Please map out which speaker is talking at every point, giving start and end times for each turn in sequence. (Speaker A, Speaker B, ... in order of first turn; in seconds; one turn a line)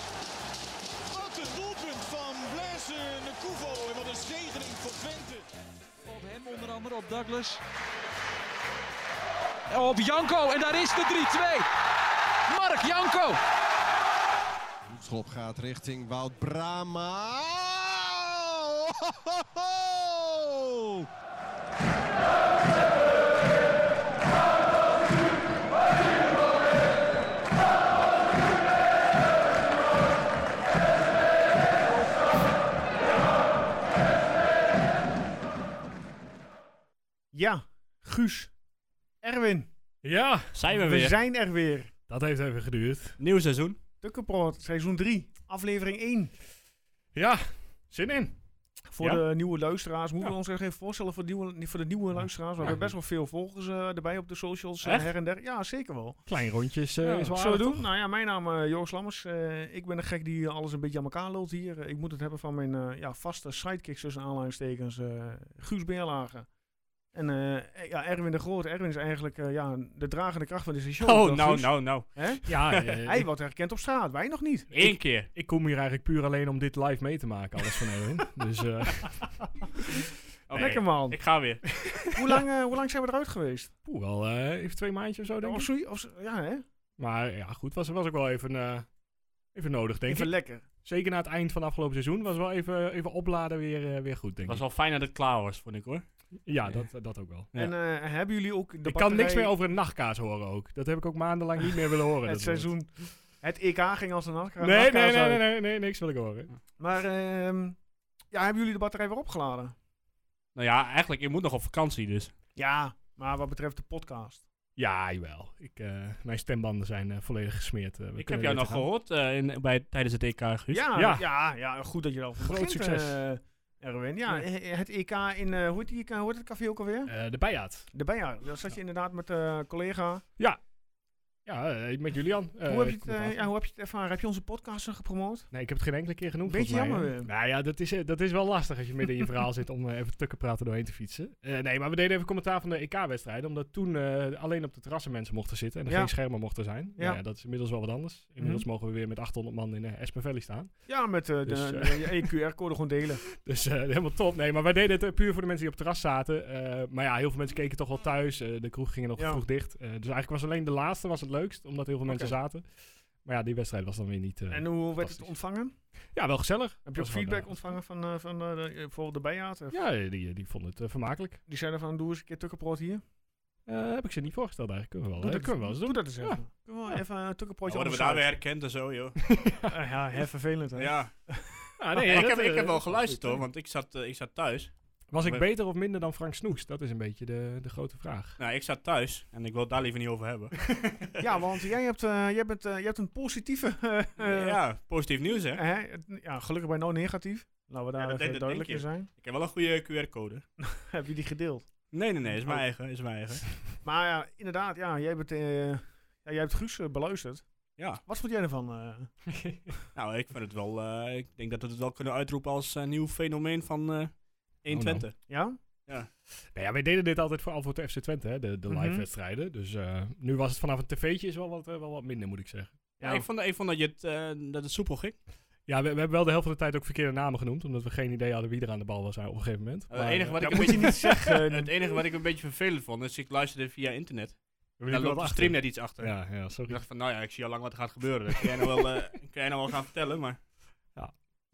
Speaker A: 1.1-5.5
Speaker B: 6.0-7.6
Speaker B: 9.7-11.7
Speaker B: 12.5-13.4
Speaker C: 14.8-21.1
Speaker D: 37.3-38.5
Speaker D: 39.2-39.7
Speaker E: 40.0-40.6
Speaker F: 40.5-41.1
Speaker D: 40.7-41.9
Speaker E: 42.1-43.2
Speaker F: 43.2-43.8
Speaker D: 44.0-46.3
Speaker E: 47.1-48.4
Speaker D: 48.9-56.2
Speaker F: 54.8-55.1
Speaker E: 56.3-57.9
Speaker D: 57.0-66.5
Speaker D: 67.1-74.7
Speaker F: 71.0-73.0
Speaker E: 72.5-73.2
Speaker F: 74.7-75.3
Speaker E: 74.7-79.3
Speaker F: 80.5-81.9
Speaker D: 80.5-81.2
Speaker D: 82.1-83.7
Speaker E: 83.8-85.7
Speaker D: 85.4-86.6
Speaker E: 87.0-88.9
Speaker E: 89.5-94.6
Speaker D: 90.1-90.7
Speaker F: 94.4-96.0
Speaker E: 96.4-97.5
Speaker D: 97.5-99.5
Speaker E: 98.8-102.7
Speaker D: 101.6-105.4
Speaker E: 104.6-106.5
Speaker D: 106.8-107.8
Speaker D: 108.3-109.7
Speaker F: 110.5-112.3
Speaker D: 112.5-114.4
Speaker E: 114.8-118.8
Speaker F: 118.2-120.8
Speaker D: 120.7-127.1
Speaker E: 120.9-121.2
Speaker E: 122.4-123.2
Speaker E: 127.1-127.9
Speaker D: 127.9-130.2
Speaker E: 131.4-133.4
Speaker D: 132.7-135.5
Speaker E: 135.5-152.3
Speaker D: 136.4-137.3
Speaker D: 145.9-146.2
Speaker D: 146.9-147.2
Speaker D: 148.4-148.6
Speaker D: 150.9-153.2
Speaker E: 153.3-165.3
Speaker D: 159.2-159.4
Speaker D: 162.1-162.3
Speaker D: 164.5-165.7
Speaker E: 166.1-167.6
Speaker D: 166.8-169.8
Speaker E: 169.7-171.4
Speaker D: 171.5-173.0
Speaker E: 173.7-177.0
Speaker D: 175.2-178.3
Speaker F: 177.7-179.2
Speaker E: 179.2-179.7
Speaker D: 179.6-181.6
Speaker F: 180.8-181.1
Speaker E: 181.8-183.4
Speaker F: 182.0-185.4
Speaker E: 185.1-188.4
Speaker F: 188.4-191.2
Speaker D: 191.2-194.6
Speaker F: 194.2-195.6
Speaker D: 195.5-199.1
Speaker F: 198.0-200.4
Speaker D: 200.6-201.7
Speaker F: 201.9-203.6
Speaker D: 202.2-202.6
Speaker D: 203.8-207.5
Speaker D: 208.0-209.1
Speaker E: 209.3-209.7
Speaker F: 209.9-215.3
Speaker E: 214.7-215.1
Speaker D: 215.3-215.6
Speaker E: 216.4-222.7
Speaker D: 218.7-219.0
Speaker D: 223.0-223.2
Speaker F: 223.0-225.2
Speaker E: 225.7-231.2
Speaker F: 229.9-240.4
Speaker D: 230.4-231.7
Speaker E: 234.8-236.8
Speaker E: 238.4-238.7